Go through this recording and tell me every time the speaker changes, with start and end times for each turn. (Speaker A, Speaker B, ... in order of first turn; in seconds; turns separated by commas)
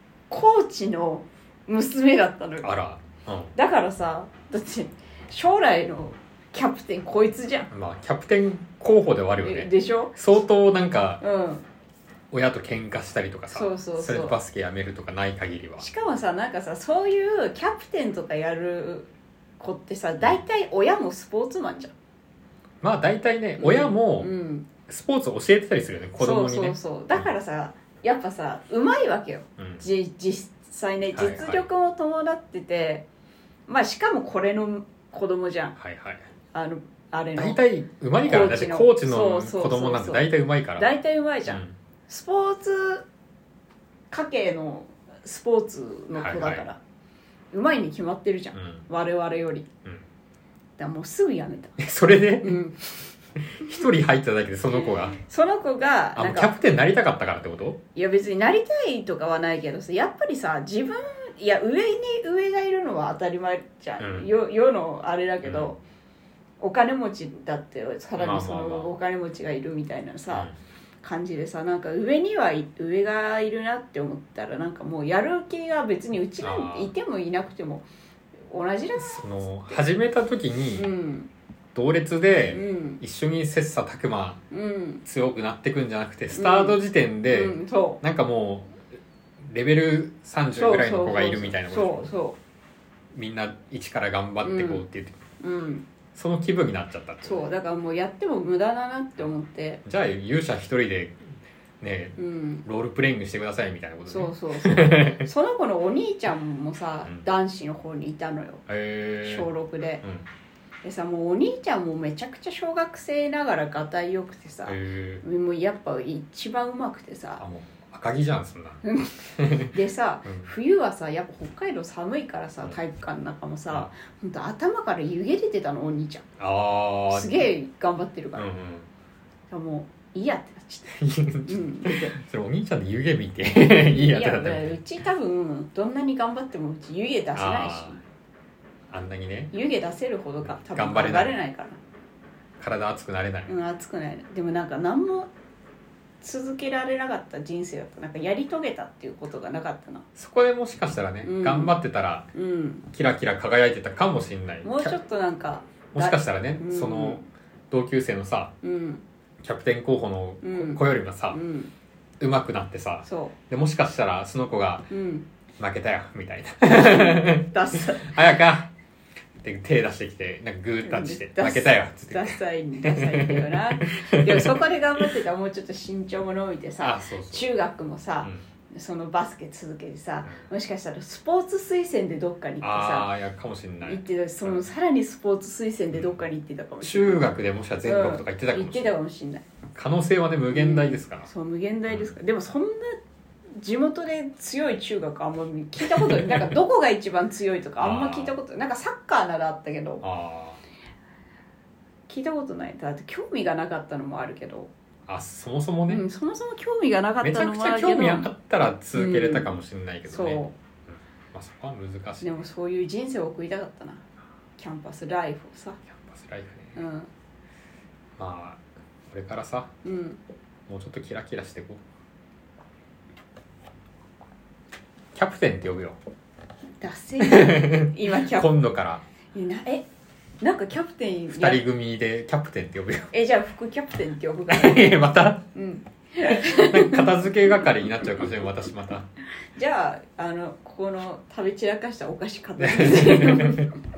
Speaker A: 0.3-2.7, Speaker B: 2.6-3.5, Speaker A: 3.5-7.7, Speaker B: 7.7-11.2, Speaker A: 9.4-10.1, Speaker A: 11.2-11.6, Speaker B: 12.3-15.9, Speaker A: 13.5-14.4, Speaker A: 15.8-21.9, Speaker B: 22.8-24.3, Speaker A: 23.6-24.7, Speaker B: 24.9-27.3, Speaker A: 26.2-33.0, Speaker B: 29.6-29.8, Speaker B: 31.1-31.7, Speaker A: 33.7-35.8, Speaker B: 35.8-36.2, Speaker A: 36.5-37.6, Speaker B: 37.4-40.9, Speaker A: 38.2-43.1, Speaker B: 41.5-41.8, Speaker A: 44.1-46.8, Speaker B: 46.1-46.6, Speaker A: 47.5-49.7, Speaker B: 48.5-48.9, Speaker A: 50.8-51.8, Speaker B: 51.8-52.6, Speaker A: 52.4-53.0, Speaker B: 53.4-55.2, Speaker A: 54.8-56.5, Speaker B: 56.2-57.8, Speaker A: 58.0-65.8, Speaker B: 64.0-64.3, Speaker B: 65.4-65.7, Speaker A: 66.6-70.5, Speaker B: 68.2-69.0, Speaker A: 71.0-77.9, Speaker B: 76.4-76.9, Speaker A: 78.5-79.8, Speaker B: 79.0-80.9, Speaker A: 80.8-81.3, Speaker B: 81.8-84.4, Speaker A: 82.5-83.0, Speaker A: 84.5-85.0, Speaker B: 85.0-88.7, Speaker A: 86.3-88.0, Speaker B: 89.4-92.1, Speaker A: 90.5-92.4, Speaker B: 93.1-95.2, Speaker A: 94.4-94.8, Speaker A: 95.4-95.9, Speaker B: 96.1-97.5, Speaker A: 97.2-99.8, Speaker B: 99.8-105.3, Speaker A: 102.2-102.7, Speaker A: 104.1-108.6, Speaker B: 108.7-109.5, Speaker A: 109.2-110.0, Speaker A: 110.8-117.4, Speaker B: 114.7-115.2, Speaker B: 117.4-118.8, Speaker A: 118.8-126.3, Speaker B: 119.4-119.7, Speaker B: 126.4-127.5, Speaker A: 127.1-128.5, Speaker B: 128.4-128.9, Speaker A: 129.5-130.9, Speaker B: 130.9-134.8, Speaker A: 131.5-132.1, Speaker A: 133.9-138.0, Speaker B: 137.3-138.0, Speaker B: 138.9-139.6, Speaker A: 139.5-141.8, Speaker B: 140.4-141.4, Speaker B: 142.6-143.6, Speaker A: 143.5-145.3, Speaker A: 146.2-150.1, Speaker B: 150.2-152.3, Speaker A: 151.2-151.7, Speaker A: 152.3-152.9, Speaker B: 152.9-155.0, Speaker A: 154.6-157.2, Speaker B: 155.9-158.5, Speaker A: 158.6-159.0, Speaker B: 159.4-161.4, Speaker A: 160.4-161.7, Speaker B: 162.2-164.9, Speaker A: 163.1-163.3, Speaker A: 164.9-165.3, Speaker B: 165.6-168.7, Speaker A: 166.7-168.2, Speaker B: 169.4-174.6, Speaker A: 170.8-183.1, Speaker B: 176.8-177.5, Speaker B: 182.6-184.6, Speaker A: 183.9-187.3, Speaker B: 185.9-186.2, Speaker B: 186.8-188.9, Speaker A: 187.8-189.4, Speaker B: 189.8-191.3, Speaker A: 190.5-193.0, Speaker B: 191.9-192.2, Speaker A: 193.6-200.0, Speaker B: 195.9-196.4, Speaker B: 197.8-198.4, Speaker B: 200.0-200.6, Speaker A: 202.1-204.7, Speaker B: 205.1-206.0, Speaker A: 205.9-208.3, Speaker B: 207.2-212.3, Speaker A: 208.9-209.6, Speaker A: 210.1-210.5, Speaker A: 212.2-214.0, Speaker A: 214.6-215.8, Speaker B: 215.9-216.8, Speaker A: 216.8-217.1, Speaker B: 218.2-219.7, Speaker A: 219.8-220.2, Speaker B: 220.7-221.8, Speaker B: 225.1-226.0, Speaker A: 226.8-228.5, Speaker B: 227.2-229.0, Speaker A: 229.3-229.9, Speaker A: 230.4-231.6, Speaker B: 231.3-233.1, Speaker A: 233.1-238.3, Speaker B: 234.5-235.4, Speaker B: 236.3-239.1, Speaker A: 239.6-243.8, Speaker B: 242.6-243.7